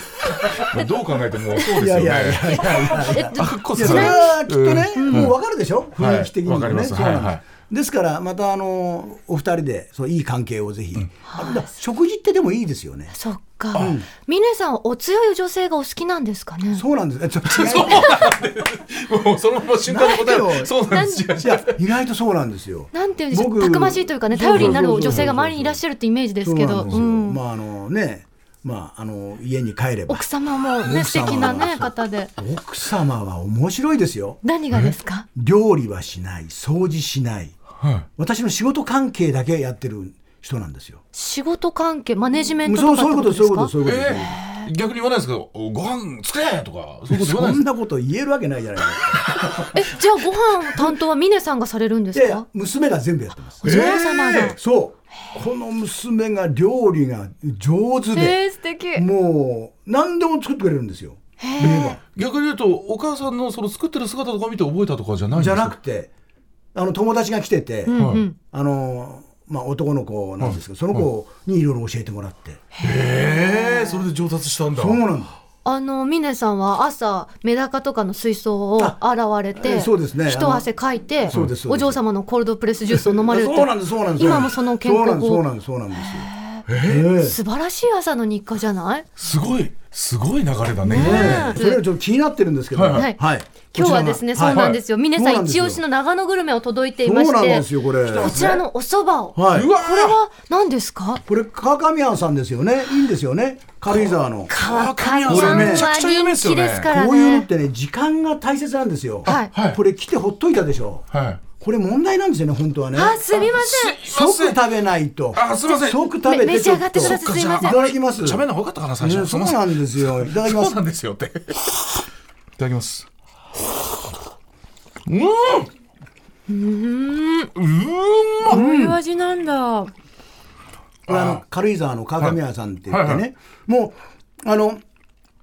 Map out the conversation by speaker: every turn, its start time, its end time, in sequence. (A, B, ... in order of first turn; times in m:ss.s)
0:00.3-0:00.8 A
0:00.4-0:05.4 B
0:01.6-0:13.2 A
0:02.5-0:04.4 C
0:05.0-0:05.3 C
0:06.0-0:07.4 B
0:11.3-0:11.6 C
0:13.2-0:16.8 C
0:13.7-0:14.0 B
0:13.7-0:14.1 A
0:16.7-0:18.3 A
0:17.5-0:21.8 B
0:19.9-0:20.8 A
0:20.9-0:21.3 C
0:21.4-0:25.8 A
0:22.9-0:27.4 C
0:24.5-0:25.3 B
0:26.4-0:34.4 A
0:30.1-0:32.3 C
0:34.4-0:35.3 C
0:35.4-0:37.6 A
0:37.8-0:38.1 B
0:38.2-0:41.0 A
0:41.1-0:44.7 C
0:42.6-0:44.4 A
0:43.8-0:47.6 B
0:47.1-0:49.8 A
0:49.7-0:52.4 C
0:52.1-0:58.4 A
0:53.6-0:54.5 B
0:53.6-0:54.6 C
0:58.1-0:59.1 C
0:59.0-1:02.0 A
1:01.4-1:02.0 C
1:01.6-1:05.7 B
1:05.3-1:06.1 A
1:06.7-1:12.7 A
1:07.9-1:08.4 C
1:08.0-1:08.2 B
1:10.4-1:11.1 B
1:12.8-1:14.0 C
1:12.8-1:15.0 B
1:14.8-1:15.4 A
1:15.6-1:29.1 C
1:19.6-1:20.7 A
1:21.2-1:22.0 A
1:21.3-1:21.6 B
1:23.0-1:26.3 A
1:26.7-1:27.1 B
1:26.8-1:27.4 A
1:29.2-1:31.6 B
1:30.9-1:31.8 C
1:30.9-1:35.8 A
1:32.7-1:33.1 B
1:32.9-1:33.2 C
1:33.7-1:41.2 C
1:34.5-1:34.8 B
1:37.0-1:38.6 A
1:38.2-1:38.5 B
1:39.4-1:39.7 A
1:39.5-1:40.2 B
1:41.3-1:44.5 A
1:43.9-1:46.9 B
1:44.5-1:47.5 C
1:45.2-1:45.9 A
1:46.8-1:53.2 A
1:49.2-1:49.5 C
1:49.3-1:49.8 B
1:51.1-1:51.4 B
1:52.9-1:54.0 C
1:53.3-1:54.6 B
1:54.0-1:58.4 A
1:55.3-1:56.1 B
1:56.2-1:57.8 C
1:57.0-2:02.0 B
1:59.0-2:00.8 A
2:02.6-2:03.1 B
2:05.1-2:05.7 B
2:06.5-2:07.5 C
2:07.6-2:08.6 B
2:08.4-2:09.0 A
2:08.5-2:09.9 C
2:11.1-2:11.4 B
2:11.1-2:14.8 A
2:12.9-2:13.2 B